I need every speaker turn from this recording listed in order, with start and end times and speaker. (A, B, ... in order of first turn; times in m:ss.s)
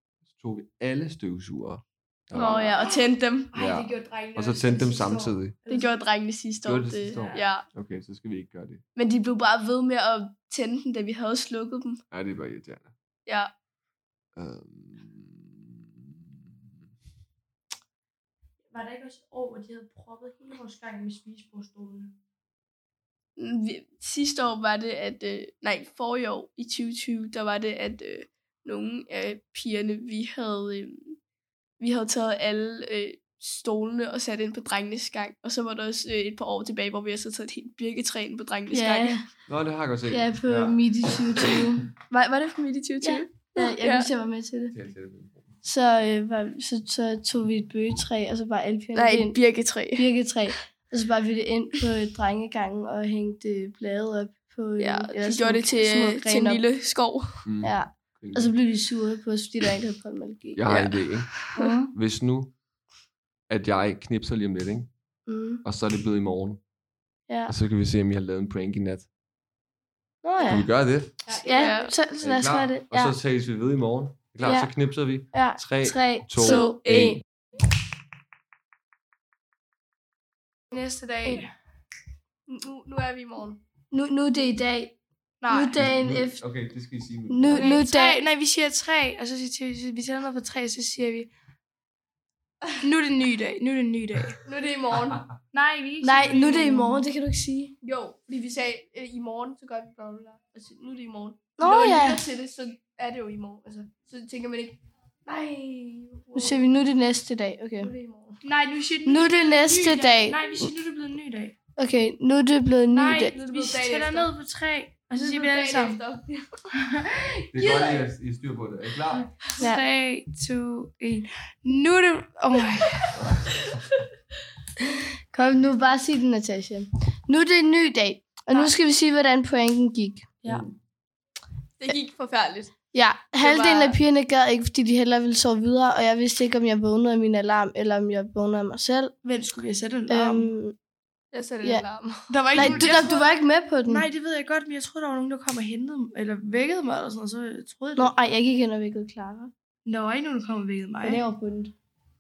0:00.3-0:02.6 A
0:02.3-0:03.5 B
0:02.4-0:02.8 C
0:02.5-0:03.0 D
0:03.5-0:06.0 D
0:03.6-0:05.5 A
0:05.7-0:07.7 B
0:06.6-0:08.8 A
0:07.1-0:07.5 D
0:09.0-0:12.0 B
0:12.1-0:12.9 A
0:13.3-0:13.5 B
0:14.4-0:15.7 A
0:18.7-0:22.2 D
0:23.4-0:31.2 B
0:31.8-0:39.2 B
0:38.7-0:39.3 C
0:39.5-0:40.8 A
0:40.1-0:41.9 C
0:42.0-0:44.1 B
0:43.0-0:44.8 C
0:44.7-0:45.6 A
0:45.6-0:56.6 C
0:49.0-0:50.1 B
0:54.8-0:57.5 B
0:57.4-0:58.5 A
0:57.6-1:00.8 C
1:00.6-1:02.5 A
1:00.7-1:01.6 B
1:01.6-1:01.9 D
1:01.6-1:01.9 C
1:03.5-1:04.9 A
1:05.3-1:05.6 C
1:05.6-1:06.6 A
1:07.3-1:07.6 C
1:07.5-1:09.1 A
1:10.2-1:10.7 C
1:10.4-1:11.2 A
1:11.2-1:11.9 D
1:11.4-1:13.2 C
1:11.5-1:11.9 B
1:12.2-1:17.2 A
1:14.4-1:14.7 C
1:15.3-1:16.8 C
1:16.4-1:17.2 B
1:20.7-1:21.5 D
1:22.5-1:23.6 B
1:23.9-1:25.0 C
1:25.4-1:25.8 D
1:25.5-1:26.4 C
1:25.8-1:27.8 A
1:27.3-1:28.2 C
1:27.5-1:31.3 D
1:32.8-1:34.4 D
1:34.4-1:35.3 B
1:35.5-1:37.0 D
1:36.0-1:37.8 C
1:37.8-1:46.6 B
1:41.6-1:42.3 C
1:46.4-1:47.9 C
1:47.8-1:48.4 B
1:48.4-1:51.6 D
1:49.1-1:50.7 C
1:51.8-1:53.3 C
1:52.9-1:56.0 D
1:53.2-1:54.3 B
1:55.2-1:56.7 B
1:56.8-1:58.0 D
1:57.5-1:59.3 A
1:59.1-2:03.2 D
1:59.6-1:59.8 C
2:05.3-2:10.4 C
2:10.5-2:10.7 A
2:11.8-2:12.7 B
2:12.9-2:19.1 C
2:13.4-2:14.0 B
2:19.2-2:20.6 D
2:20.1-2:20.8 C
2:21.3-2:23.0 B
2:21.6-2:21.9 C
2:22.3-2:23.3 D
2:22.5-2:24.1 C
2:23.9-2:28.2 D
2:28.0-2:29.5 C
2:29.9-2:31.2 D
2:31.0-2:31.7 C